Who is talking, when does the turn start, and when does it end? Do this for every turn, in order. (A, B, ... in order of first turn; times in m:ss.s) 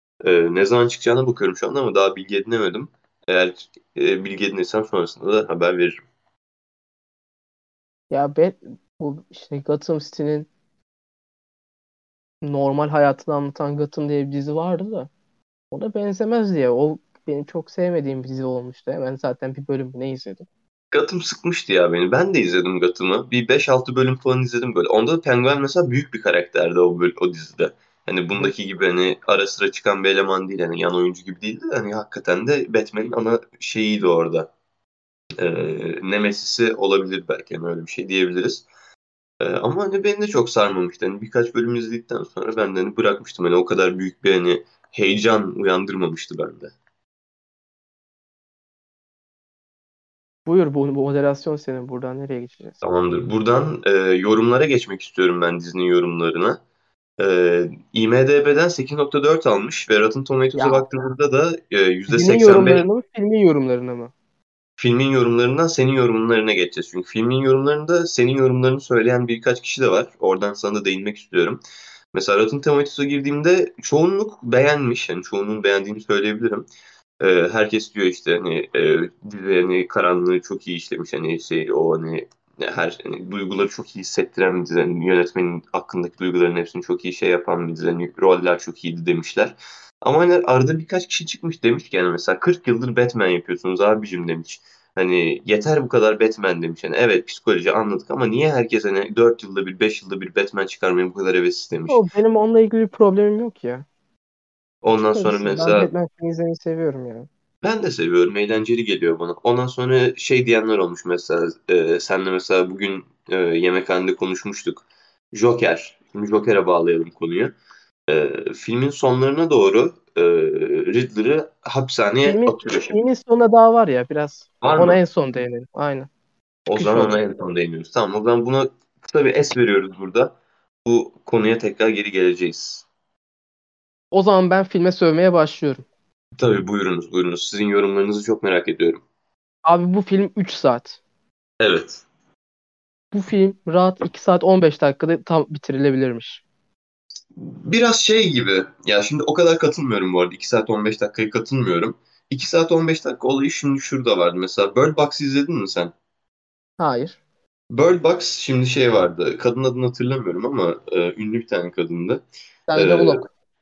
0:00.2-0:06.0 A
0:08.1-0:10.5 B
0:12.4-0:15.1 B
0:15.7-0:20.4 B
0:20.9-0:34.5 A
0:35.4-0:38.6 A
0:39.4-0:46.7 A
0:50.4-0:52.7 B
0:52.8-0:56.6 A
0:57.2-1:02.8 A
1:00.5-1:00.8 B
1:02.1-1:04.1 B
1:04.8-1:11.6 A
1:12.1-1:16.6 A
1:17.2-1:42.0 A
1:41.9-1:43.8 B
1:44.8-1:45.9 A
1:45.1-1:47.3 B
1:47.6-1:57.6 A
1:58.1-2:03.0 A
2:02.2-2:06.1 B
2:04.6-2:05.0 A
2:06.7-2:10.3 A
2:06.7-2:07.2 B
2:10.8-2:12.9 A
2:14.1-2:15.8 B
2:16.4-2:19.0 A
2:19.6-2:21.0 B
2:21.6-2:22.0 A
2:23.1-2:26.4 B
2:27.3-2:35.9 A
2:36.8-2:37.2 B
2:37.7-2:43.2 A
2:42.7-2:43.3 B